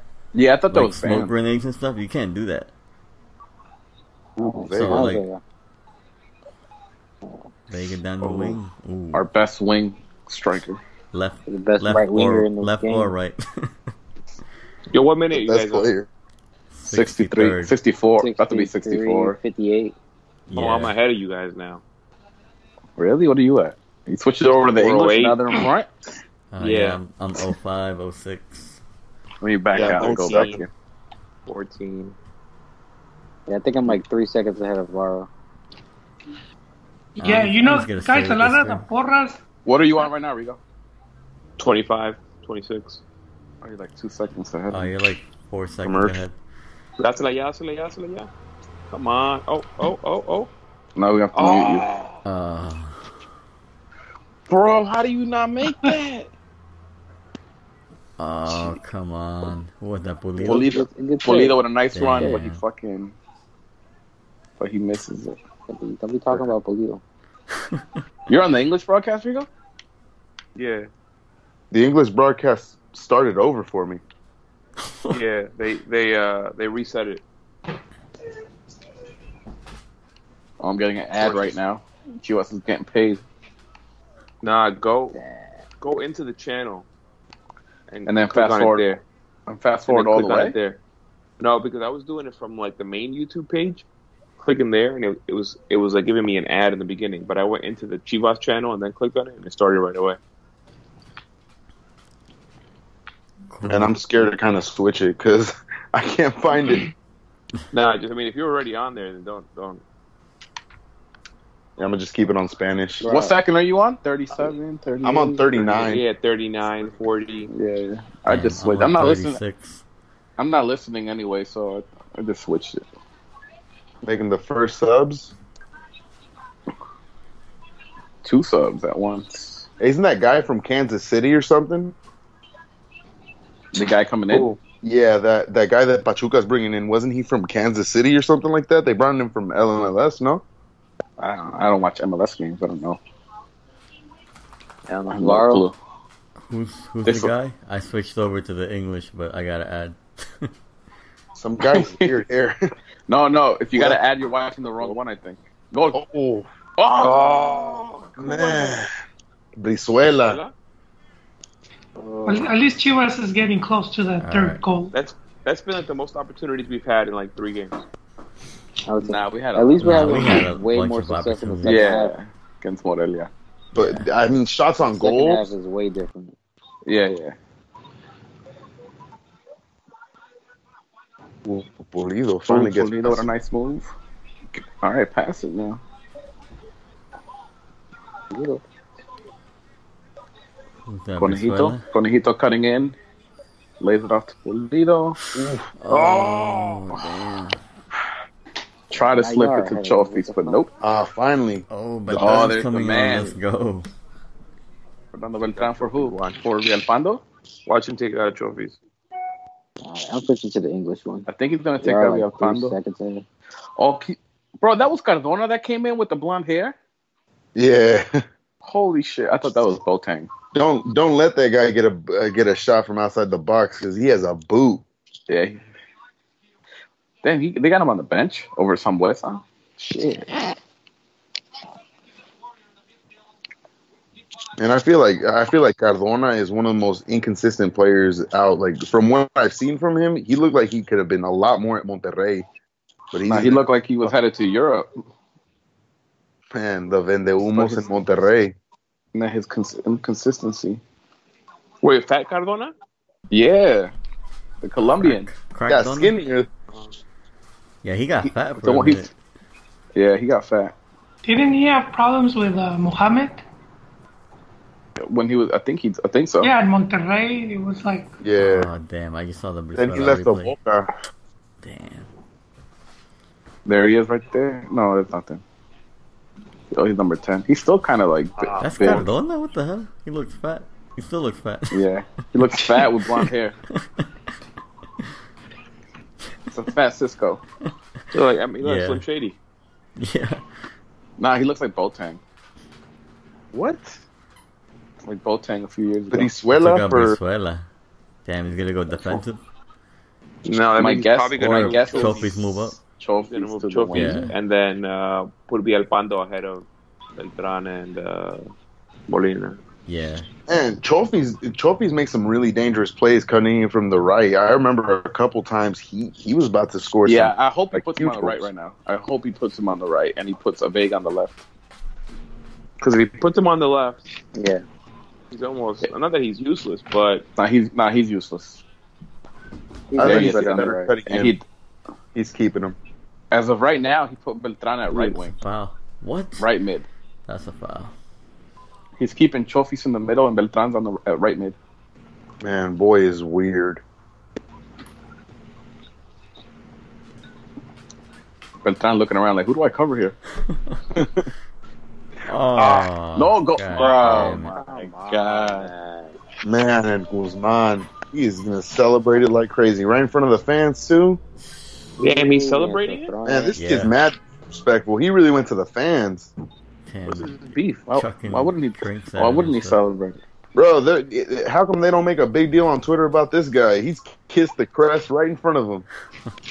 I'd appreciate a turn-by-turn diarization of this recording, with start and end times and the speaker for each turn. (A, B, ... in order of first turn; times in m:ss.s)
0:00.3-0:01.3 A
0:00.7-0:02.7 B
0:04.4-0:05.2 C
0:04.4-0:05.4 D
0:04.7-0:05.2 B
0:07.7-0:09.3 B
0:08.2-0:08.6 A
0:09.1-0:10.8 A
0:11.1-0:13.7 B
0:11.5-0:13.1 D
0:14.9-0:15.9 E
0:15.3-0:16.1 C
0:16.7-0:17.7 B
0:16.9-0:19.4 A
0:18.2-0:20.0 D
0:20.5-0:21.0 B
0:20.5-0:21.8 E
0:23.0-0:25.9 A
0:24.8-0:25.5 E
0:26.5-0:28.8 B
0:26.6-0:27.0 E
0:29.4-0:30.7 A
0:29.7-0:30.6 C
0:29.8-0:30.6 E
0:31.5-0:32.2 E
0:33.5-0:35.3 D
0:37.2-0:39.4 F
0:37.2-0:38.9 B
0:39.6-0:40.6 A
0:41.6-0:43.0 E
0:43.6-0:44.9 A
0:44.7-0:46.4 B
0:45.8-0:46.2 C
0:47.0-0:48.3 E
0:48.9-0:50.5 E
0:51.0-0:51.9 A
0:51.3-0:52.2 E
0:52.2-0:53.1 B
0:54.5-0:56.3 A
0:58.2-1:00.7 B
1:00.4-1:03.2 A
1:00.5-1:01.6 D
1:01.9-1:02.6 B
1:04.6-1:05.4 A
1:05.7-1:07.0 D
1:08.3-1:09.5 A
1:10.6-1:10.9 E
1:11.7-1:14.0 C
1:14.9-1:15.2 B
1:15.1-1:17.2 E
1:20.6-1:23.2 A
1:21.2-1:21.6 C
1:24.4-1:25.2 E
1:25.2-1:25.5 D
1:25.8-1:26.9 E
1:27.9-1:29.0 E
1:28.1-1:28.9 A
1:29.5-1:30.6 A
1:29.9-1:30.8 E
1:31.4-1:33.8 E
1:34.4-1:40.2 E
1:43.5-1:44.0 B
1:43.7-1:46.9 C
1:47.7-1:49.8 E
1:51.8-1:53.1 C
1:53.0-1:53.4 D
1:53.0-1:55.9 A
1:55.0-1:56.0 C
1:55.8-1:57.5 E
1:57.5-1:59.4 A
1:58.3-1:59.8 B
2:00.4-2:02.8 A
2:04.0-2:05.3 C
2:08.2-2:09.7 A
2:09.8-2:12.0 C
2:13.7-2:14.5 A
2:14.3-2:20.4 C
2:21.2-2:23.0 A
2:24.9-2:25.7 D
2:25.1-2:25.8 A
2:26.4-2:30.5 B
2:27.1-2:27.3 A
2:31.4-2:32.6 C
2:31.6-2:32.1 A
2:33.1-2:36.0 A
2:35.9-2:36.5 C
2:36.8-2:37.3 A
2:37.0-2:38.9 C
2:37.2-2:38.2 E
2:39.6-2:40.4 C
2:40.2-2:40.5 E
2:42.0-2:42.5 D
2:42.3-2:44.9 F
2:44.2-2:44.6 B
2:44.9-2:47.8 E
2:48.9-2:52.1 D
2:49.0-2:50.4 A
2:49.8-2:51.9 B
2:51.6-2:53.3 A
2:53.7-2:54.1 B
2:53.8-2:55.5 C
2:55.0-2:56.4 D
2:56.9-2:57.4 A
3:01.5-3:03.3 C
3:02.5-3:03.9 A
3:04.6-3:05.8 A
3:08.3-3:08.6 D
3:10.9-3:11.8 B
3:11.2-3:13.0 A
3:13.8-3:15.2 A
3:15.3-3:15.7 C
3:15.8-3:17.6 B
3:18.9-3:20.7 A
3:19.0-3:20.6 D
3:20.8-3:21.7 C
3:21.7-3:23.9 B
3:22.1-3:23.4 A
3:25.1-3:27.2 A
3:25.6-3:26.4 C
3:27.7-3:28.8 E
3:29.8-3:31.3 D
3:31.3-3:32.8 A
3:31.8-3:33.3 D
3:33.8-3:36.8 A
3:37.6-3:38.2 C
3:38.6-3:40.3 A
3:40.5-3:44.8 C
3:45.3-3:45.6 A
3:47.2-3:50.6 A
3:54.6-4:02.5 C
4:03.1-4:03.6 C
4:03.2-4:04.9 A
4:06.5-4:08.6 C
4:07.4-4:07.9 A
4:09.1-4:10.8 A
4:11.8-4:12.7 E
4:13.3-4:13.9 A
4:14.6-4:15.3 A
4:14.8-4:16.1 B
4:15.7-4:16.5 C
4:16.7-4:17.0 E
4:17.8-4:19.1 B
4:18.6-4:19.1 A
4:20.0-4:20.7 A
4:21.2-4:23.4 F
4:25.0-4:26.5 A
4:26.4-4:28.1 F
4:28.2-4:28.7 C
4:28.4-4:30.5 B
4:29.8-4:30.9 C
4:31.6-4:32.1 B
4:33.7-4:35.4 A
4:36.7-4:39.1 A
4:38.5-4:39.0 C
4:38.6-4:41.8 B
4:41.7-4:43.6 A
4:43.7-4:44.1 B
4:46.5-4:47.4 A
4:48.1-4:49.4 E
4:48.6-4:49.0 B
4:50.0-4:50.4 B
4:51.2-4:52.2 A
4:53.5-4:54.0 A
4:55.0-4:56.3 A
4:56.1-4:57.2 C
4:56.5-4:57.7 B
4:58.2-4:59.4 B
5:00.4-5:02.4 E
5:00.8-5:04.3 A
5:01.4-5:02.8 B
5:03.3-5:08.4 E
5:03.9-5:04.3 B
5:09.1-5:09.6 E
5:09.9-5:10.3 B
5:10.5-5:18.5 C
5:17.0-5:21.4 A
5:22.8-5:24.1 E
5:24.3-5:24.6 D
5:25.3-5:27.2 E
5:27.4-5:28.6 A
5:29.9-5:30.9 D
5:30.0-5:31.4 C
5:30.0-5:31.4 A
5:32.2-5:32.8 C
5:33.3-5:35.3 A
5:35.0-5:36.5 B
5:36.4-5:36.9 A
5:37.3-5:37.9 B
5:39.0-5:41.6 A
5:42.4-5:43.8 C
5:48.6-5:50.2 A
5:50.5-5:50.8 B
5:52.3-5:54.5 B
5:53.2-5:55.7 A
5:53.8-5:56.1 D
5:56.4-6:01.2 C
6:02.0-6:03.1 E
6:02.0-6:03.6 D
6:03.3-6:06.3 C
6:03.6-6:04.0 B
6:06.9-6:07.3 B
6:07.1-6:07.9 E
6:07.9-6:10.2 A
6:07.9-6:09.8 B
6:10.6-6:15.9 C